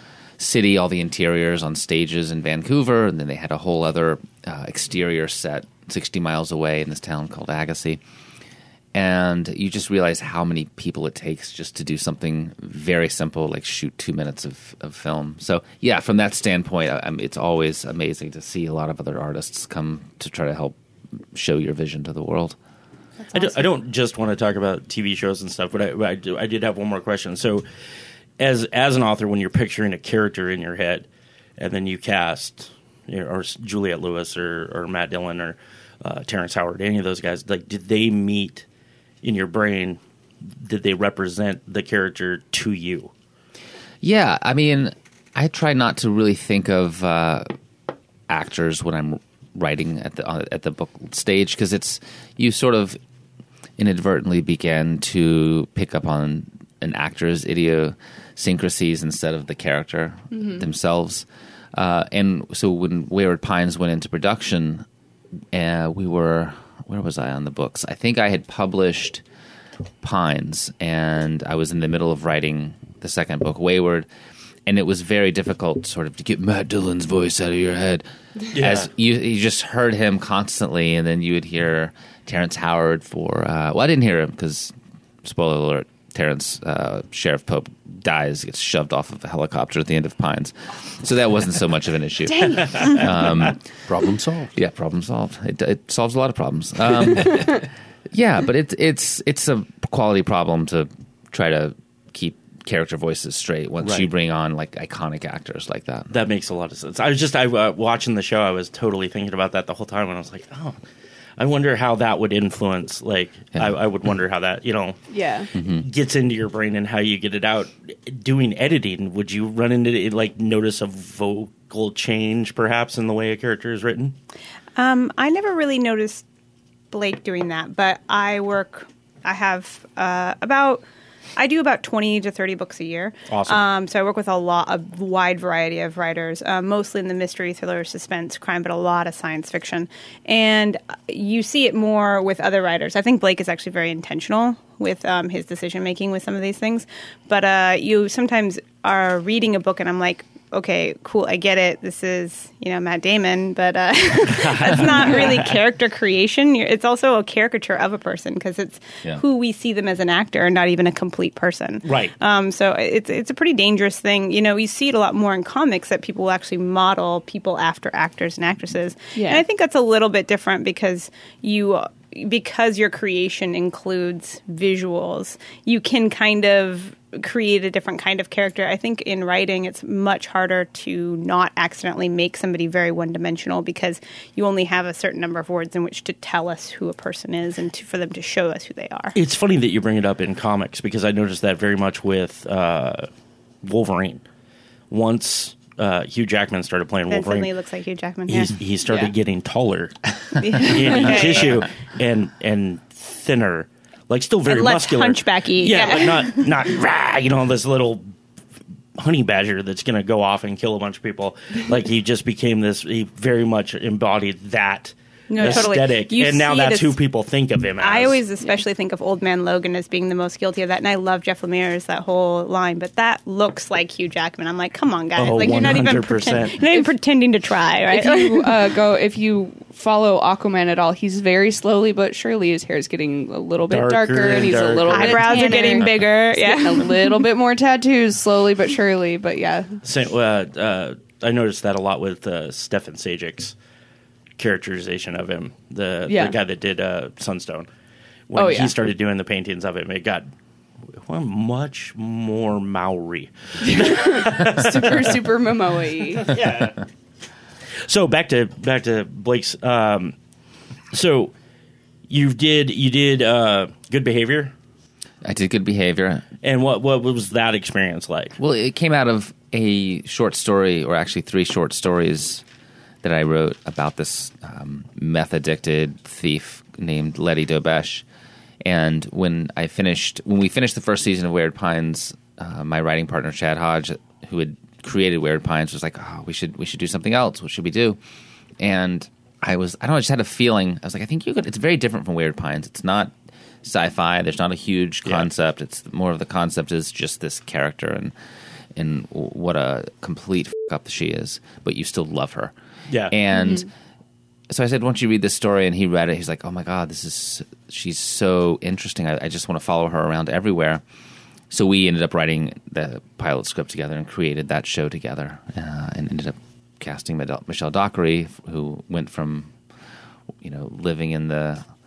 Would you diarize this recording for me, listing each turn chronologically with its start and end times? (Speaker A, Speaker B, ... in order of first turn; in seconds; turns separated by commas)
Speaker A: 0.4-8.0, Speaker A: 8.9-20.8, Speaker A: 21.3-22.6, Speaker B: 23.2-23.6, Speaker C: 23.3-27.6, Speaker C: 28.4-38.7, Speaker C: 39.2-40.0, Speaker C: 40.6-43.1, Speaker A: 44.0-47.5, Speaker A: 48.3-53.0, Speaker A: 53.8-64.8, Speaker D: 60.3-60.6, Speaker A: 65.5-69.2, Speaker A: 70.0-74.1, Speaker A: 74.7-84.7, Speaker C: 78.5-78.9, Speaker A: 85.2-93.6, Speaker D: 92.3-92.9, Speaker A: 94.5-106.2, Speaker C: 103.8-104.1, Speaker C: 106.1-110.8, Speaker C: 111.4-115.0, Speaker D: 115.1-115.5, Speaker C: 115.5-124.1, Speaker A: 115.5-115.9, Speaker B: 124.8-126.2, Speaker B: 126.9-130.8, Speaker B: 131.4-189.2, Speaker C: 133.3-133.6, Speaker C: 154.3-155.6, Speaker C: 161.8-162.1, Speaker D: 169.1-169.4, Speaker C: 189.1-193.1, Speaker C: 193.6-194.2, Speaker C: 194.9-197.5, Speaker B: 197.1-198.5, Speaker C: 198.3-200.0, Speaker B: 200.4-201.7, Speaker C: 200.6-208.1, Speaker B: 204.5-206.4, Speaker C: 208.9-218.2, Speaker B: 215.3-217.0, Speaker D: 215.3-215.7, Speaker B: 217.8-228.6, Speaker C: 225.2-226.6, Speaker D: 227.9-239.8, Speaker C: 233.7-235.6, Speaker B: 234.9-237.1, Speaker C: 239.8-243.6, Speaker C: 244.4-247.7, Speaker D: 246.1-246.4, Speaker C: 248.3-250.3, Speaker D: 248.3-248.7, Speaker C: 250.9-255.2, Speaker D: 253.6-256.3, Speaker C: 256.2-256.8, Speaker C: 257.9-260.1, Speaker C: 260.9-261.3, Speaker C: 262.1-264.5, Speaker A: 265.2-266.2, Speaker C: 266.4-268.4, Speaker A: 268.4-272.4, Speaker A: 273.0-278.0, Speaker A: 278.6-288.0, Speaker A: 288.6-298.1, Speaker A: 298.8-302.5, Speaker C: 302.9-303.1, Speaker A: 303.1-303.7, Speaker D: 303.3-303.6, Speaker A: 304.5-310.8, Speaker A: 311.5-319.5, Speaker A: 320.4-321.6